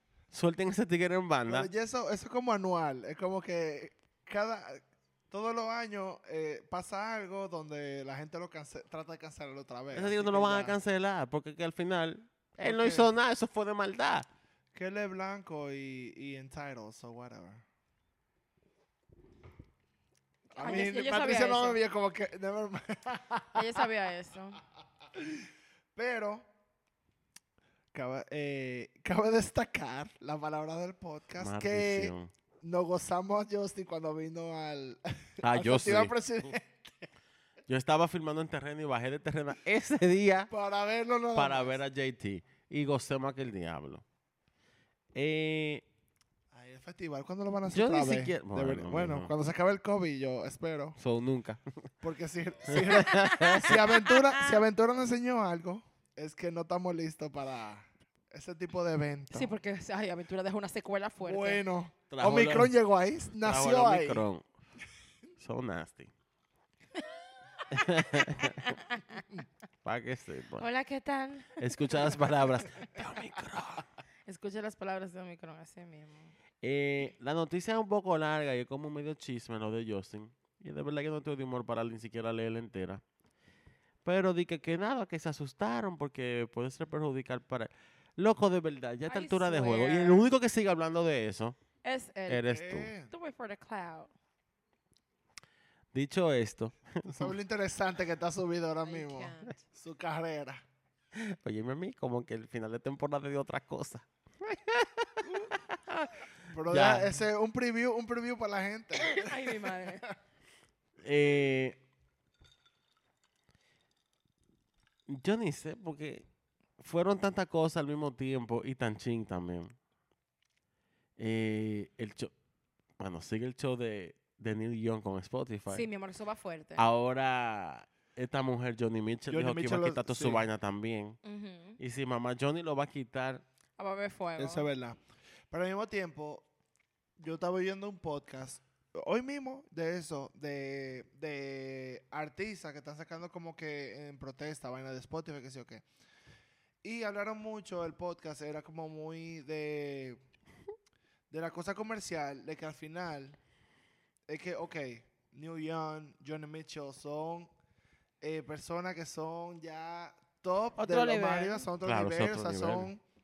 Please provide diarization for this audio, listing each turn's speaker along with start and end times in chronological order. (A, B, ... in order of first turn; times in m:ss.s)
0:00.3-0:01.7 A
0:01.5-0:10.8 B
0:09.9-0:14.3 A
0:12.6-0:13.1 B
0:14.7-0:17.6 B
0:20.5-0:21.8 C
0:20.6-0:23.9 B
0:23.5-0:24.6 C
0:25.1-0:26.5 B
0:27.9-0:37.1 B
0:31.4-0:32.3 A
0:35.4-0:36.2 A
0:37.7-0:40.5 A
0:40.5-0:41.8 B
0:41.4-0:44.0 A
0:45.2-0:45.8 A
0:46.5-0:51.0 B
0:47.7-0:49.3 A
0:51.0-0:51.9 A
0:52.0-0:59.5 B
0:52.7-0:53.8 A
0:52.9-0:54.6 C
0:59.3-1:01.6 C
1:01.2-1:04.2 B
1:02.1-1:02.7 A
1:03.4-1:04.4 A
1:05.4-1:06.1 A
1:07.7-1:08.8 A
1:08.4-1:09.2 C
1:09.8-1:10.6 A
1:10.6-1:11.6 C
1:11.6-1:13.9 A
1:14.3-1:16.3 C
1:16.6-1:23.0 A
1:24.0-1:31.6 A
1:29.1-1:30.3 C
1:31.8-1:32.4 C
1:32.3-1:32.9 A
1:32.5-1:33.1 B
1:33.1-1:34.1 C
1:35.9-1:37.3 A
1:37.1-1:40.6 B
1:38.8-1:39.6 C
1:41.2-1:46.1 A
1:45.2-1:45.6 B
1:46.5-1:49.7 B
1:46.7-1:47.2 A
1:49.1-1:50.1 C
1:51.0-1:51.8 A
1:55.1-1:56.3 A
1:56.8-1:59.7 A
2:01.2-2:02.3 A
2:03.0-2:05.9 A
2:05.7-2:06.8 C
2:06.8-2:11.2 A
2:09.3-2:10.4 B
2:11.2-2:11.8 C
2:11.8-2:13.4 A
2:13.8-2:14.7 C
2:14.4-2:15.0 B
2:15.5-2:16.5 B
2:17.2-2:25.8 B
2:26.8-2:30.2 B
2:31.3-2:33.4 B
2:34.3-2:37.5 B
2:38.2-2:43.0 B
2:40.8-2:41.7 C
2:41.8-2:42.9 A